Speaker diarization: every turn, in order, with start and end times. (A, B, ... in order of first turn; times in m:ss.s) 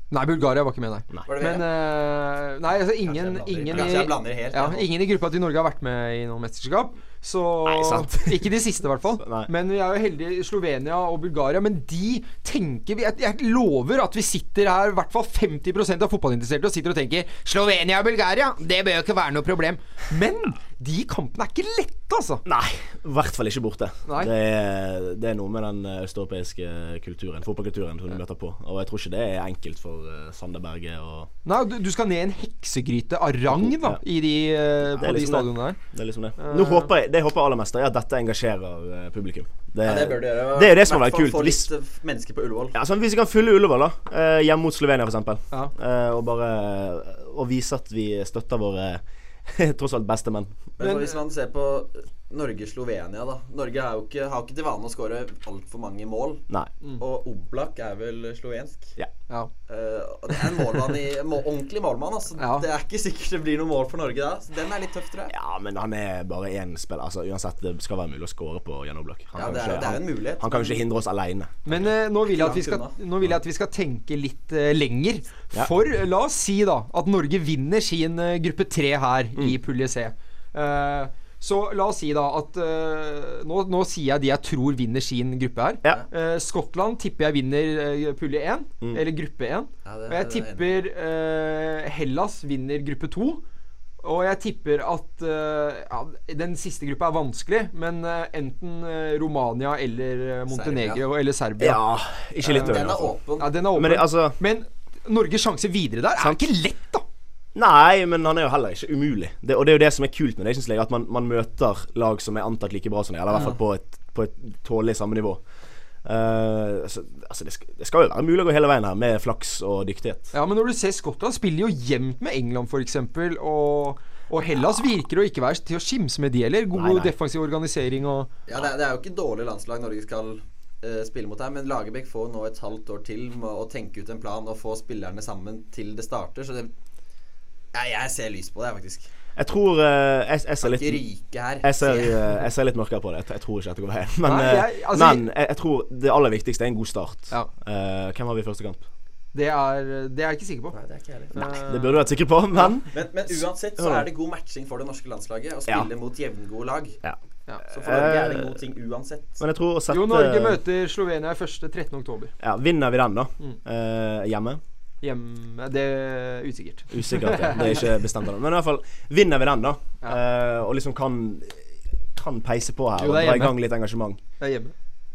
0:00.1-0:22.4 A
0:01.3-0:01.7 B
0:03.0-0:04.9 B
0:07.6-0:08.4 C
0:09.2-0:09.5 C
0:22.4-0:31.3 C
0:31.4-0:35.8 A
0:33.5-0:34.0 C
0:35.0-0:41.6 C
0:36.4-0:36.9 A
0:39.8-0:42.8 B
0:42.7-0:50.5 C
0:50.8-0:56.4 B
0:50.8-0:51.1 A
0:57.0-0:58.9 B
0:59.7-1:05.3 B
1:02.4-1:02.6 A
1:05.3-1:11.9 C
1:09.4-1:10.8 B
1:11.6-1:33.4 A
1:12.3-1:13.0 B
1:29.8-1:30.8 B
1:34.0-1:41.8 A
1:40.5-1:41.0 B
1:41.6-1:43.1 C
1:42.5-1:42.8 A
1:42.5-1:43.5 B
1:43.4-1:47.0 A
1:43.7-1:44.4 C
1:46.2-1:46.4 C
1:47.5-1:55.4 C
1:56.0-2:00.3 C
2:00.3-2:08.3 A
2:06.7-2:07.1 C
2:08.5-2:16.7 B
2:17.7-2:19.1 B
2:19.4-2:21.0 C
2:20.6-2:22.2 B
2:21.6-2:28.8 C
2:24.2-2:25.2 A
2:29.3-2:30.8 A
2:30.8-2:31.5 B
2:31.3-2:32.0 A
2:31.6-2:32.9 C
2:32.9-2:37.0 B
2:33.8-2:34.1 C
2:37.7-2:38.6 C
2:37.7-2:39.4 B
2:39.4-2:40.6 C
2:39.9-2:42.3 A
2:42.4-2:44.6 C
2:45.0-2:47.8 A
2:46.9-2:54.2 C
2:53.0-2:53.6 A
2:54.4-2:54.7 A